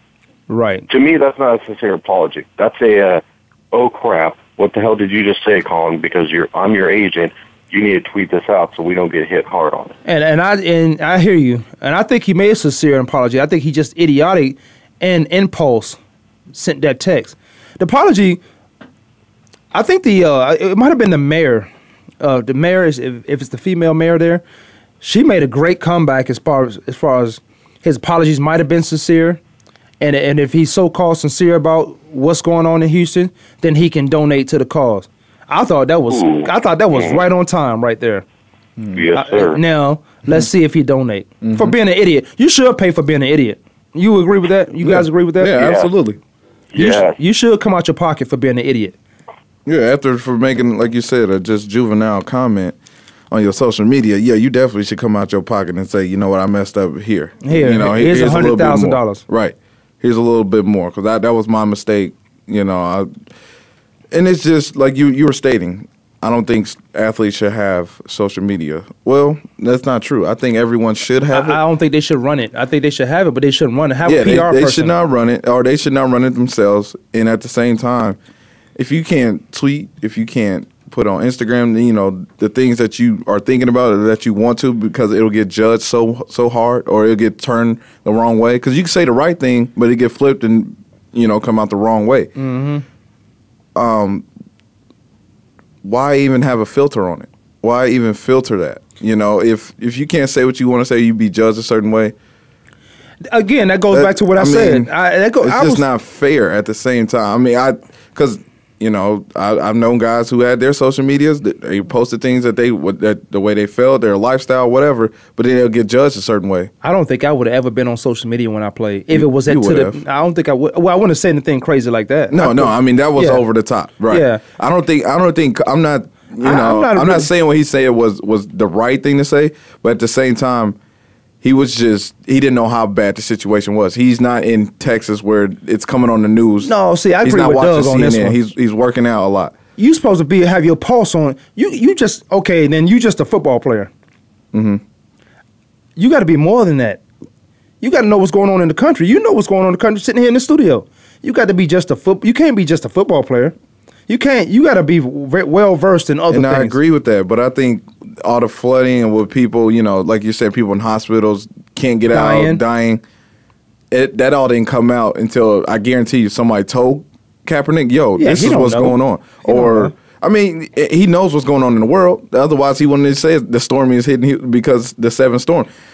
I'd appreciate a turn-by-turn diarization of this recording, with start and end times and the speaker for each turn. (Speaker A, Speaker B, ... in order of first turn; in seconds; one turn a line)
Speaker A: 0.5-0.9
Speaker B: 0.9-9.9
Speaker A: 10.0-16.0
Speaker A: 16.5-18.4
Speaker A: 19.7-21.7
Speaker A: 22.2-24.4
Speaker A: 25.0-29.4
Speaker A: 30.0-38.2
Speaker B: 36.1-37.2
Speaker B: 38.9-39.6
Speaker A: 39.1-45.7
Speaker C: 41.4-41.7
Speaker C: 44.8-46.2
Speaker B: 45.5-45.9
Speaker B: 46.7-47.1
Speaker A: 46.8-49.0
Speaker C: 49.6-52.8
Speaker C: 53.3-63.1
Speaker A: 57.4-59.2
Speaker C: 64.1-71.6
Speaker A: 71.3-74.9
Speaker C: 74.0-78.2
Speaker C: 78.8-92.3
Speaker A: 92.3-92.8
Speaker C: 93.7-94.2
Speaker C: 95.8-102.1
Speaker A: 103.3-105.8
Speaker C: 103.9-116.7
Speaker A: 116.8-123.4
Speaker C: 119.1-120.0
Speaker C: 122.3-130.8
Speaker A: 124.1-124.4
Speaker A: 126.4-127.3
Speaker C: 131.4-139.6
Speaker A: 136.6-138.4
Speaker A: 139.8-143.9
Speaker C: 144.5-144.8
Speaker A: 145.9-147.0
Speaker A: 147.8-153.5
Speaker A: 154.1-156.8
Speaker C: 156.3-163.0
Speaker A: 162.1-162.6
Speaker C: 163.9-175.7
Speaker A: 168.2-169.9